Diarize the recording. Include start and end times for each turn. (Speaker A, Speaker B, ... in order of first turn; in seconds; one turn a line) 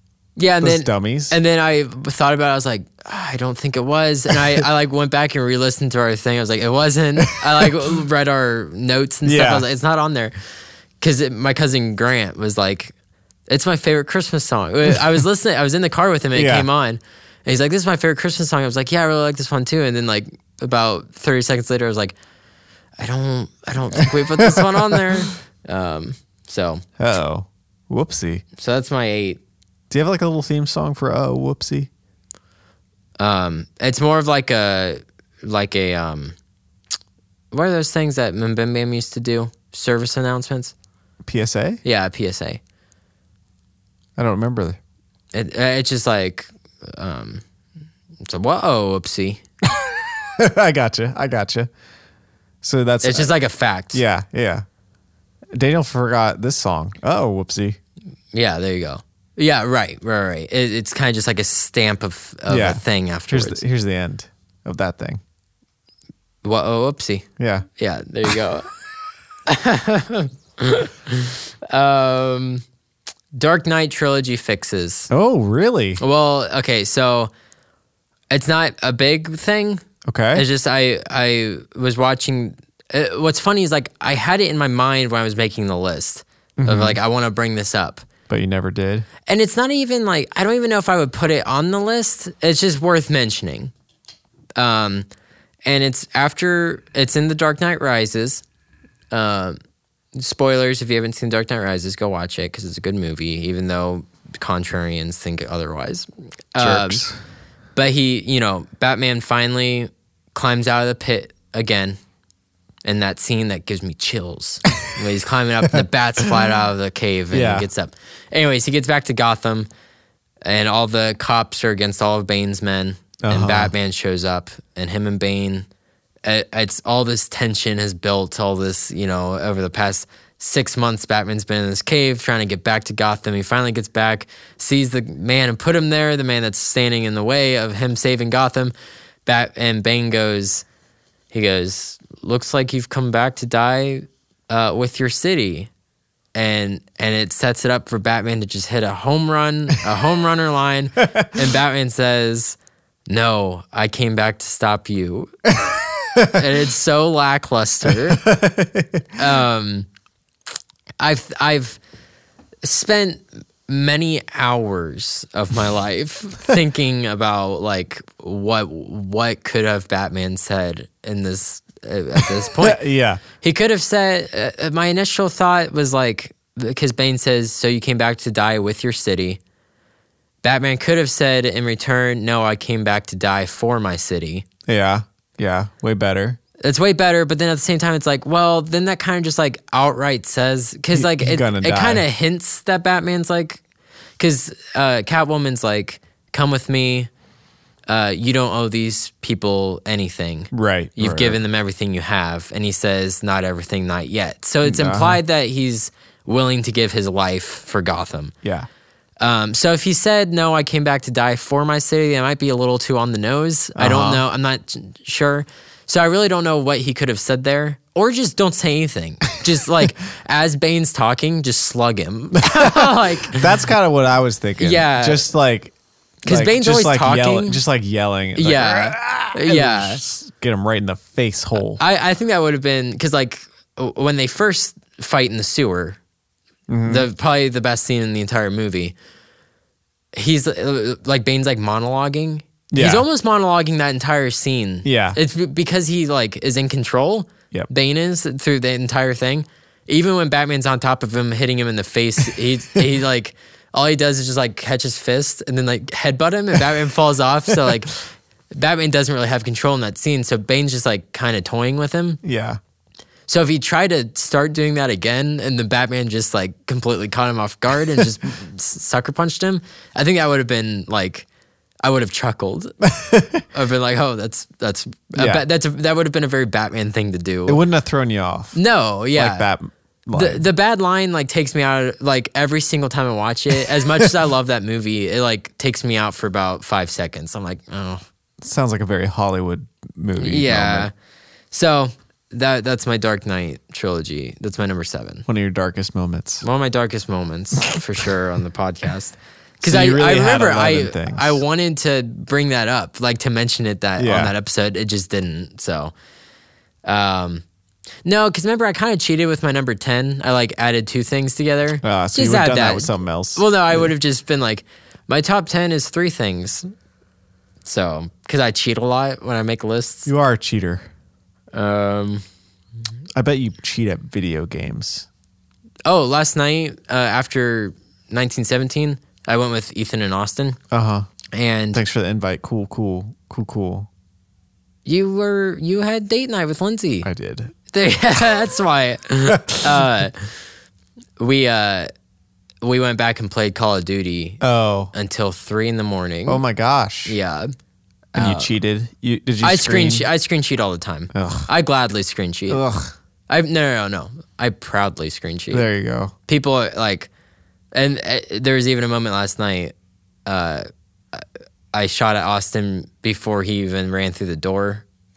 Speaker A: 0.4-10.3
Speaker B: 0.6-1.4
Speaker B: 7.2-7.7
Speaker B: 9.2-9.6
Speaker A: 11.0-12.9
Speaker A: 13.5-22.1
Speaker B: 16.3-16.7
Speaker A: 23.0-26.8
Speaker B: 24.0-25.2
Speaker B: 27.0-28.4
Speaker A: 28.6-29.4
Speaker B: 29.9-31.9
Speaker A: 33.2-36.3
Speaker A: 37.5-40.7
Speaker B: 41.2-41.8
Speaker A: 41.8-42.6
Speaker B: 44.2-44.8
Speaker A: 45.3-47.4
Speaker A: 48.2-49.4
Speaker B: 49.8-51.7
Speaker B: 52.6-53.3
Speaker A: 53.0-54.0
Speaker B: 53.9-54.6
Speaker B: 55.5-57.8
Speaker A: 58.3-63.6
Speaker B: 62.5-65.2
Speaker A: 66.4-67.2
Speaker B: 67.4-67.7
Speaker A: 67.8-68.7
Speaker A: 69.5-72.6
Speaker A: 73.3-75.1
Speaker B: 75.1-76.0
Speaker A: 76.0-77.3
Speaker A: 78.3-88.0
Speaker B: 80.0-80.5
Speaker B: 86.6-87.0
Speaker B: 88.3-89.1
Speaker A: 89.2-93.7
Speaker A: 94.5-95.1
Speaker A: 95.7-98.4
Speaker A: 99.1-99.6
Speaker A: 100.1-107.0
Speaker B: 106.6-107.1
Speaker A: 107.8-112.0
Speaker A: 112.8-119.7
Speaker B: 117.3-117.7
Speaker A: 120.4-125.7
Speaker B: 123.2-123.7
Speaker A: 126.2-138.7
Speaker A: 139.2-140.6
Speaker A: 141.3-145.7
Speaker A: 146.3-152.6
Speaker A: 153.1-155.3
Speaker B: 155.6-156.4
Speaker A: 156.3-158.3
Speaker B: 157.8-159.2
Speaker A: 159.2-159.9
Speaker A: 161.0-161.8
Speaker A: 162.6-172.8
Speaker B: 172.5-173.2
Speaker A: 173.3-179.4
Speaker A: 180.4-184.4
Speaker B: 184.7-186.4
Speaker A: 186.6-193.6
Speaker B: 190.9-192.0
Speaker A: 194.2-197.1
Speaker A: 197.9-208.3
Speaker B: 200.5-201.4
Speaker B: 204.6-205.2
Speaker A: 209.2-223.6
Speaker B: 213.8-214.2
Speaker B: 222.4-225.7
Speaker A: 224.6-225.3
Speaker A: 226.2-227.6
Speaker B: 226.3-231.8
Speaker A: 228.3-230.0
Speaker A: 231.7-236.0
Speaker B: 236.7-237.1
Speaker A: 236.8-238.9
Speaker A: 240.1-258.0
Speaker B: 242.7-243.0
Speaker B: 244.8-245.2
Speaker A: 258.5-262.2
Speaker B: 262.2-262.6
Speaker A: 263.3-271.3
Speaker A: 271.8-272.7
Speaker B: 272.8-273.4
Speaker A: 273.5-277.6
Speaker B: 275.1-275.4
Speaker B: 277.5-278.6
Speaker A: 278.5-279.5
Speaker B: 279.1-280.4
Speaker A: 280.1-288.0
Speaker B: 288.4-290.9
Speaker A: 290.2-290.9
Speaker A: 291.5-295.2
Speaker B: 295.3-296.4
Speaker A: 296.4-305.9
Speaker B: 299.6-301.4
Speaker B: 304.0-304.3
Speaker A: 306.8-307.4
Speaker A: 308.0-316.7
Speaker B: 311.8-313.9
Speaker A: 317.6-320.1
Speaker B: 320.1-320.8
Speaker A: 321.5-322.2
Speaker B: 323.1-325.1
Speaker A: 325.9-330.6
Speaker B: 330.7-331.1
Speaker A: 331.3-331.8
Speaker B: 331.7-333.9
Speaker A: 334.9-337.1
Speaker B: 337.0-337.5
Speaker A: 337.7-340.3
Speaker B: 339.5-339.8
Speaker A: 341.2-341.9
Speaker A: 342.6-344.4
Speaker B: 344.4-344.9
Speaker A: 344.9-346.4
Speaker B: 346.3-347.1
Speaker A: 347.1-347.5
Speaker A: 348.1-348.5
Speaker B: 348.1-350.1
Speaker A: 349.4-352.6
Speaker B: 351.1-351.5
Speaker B: 352.5-352.9
Speaker A: 353.3-355.6
Speaker B: 355.5-356.1
Speaker A: 356.3-357.1
Speaker A: 357.7-359.7
Speaker A: 360.2-364.8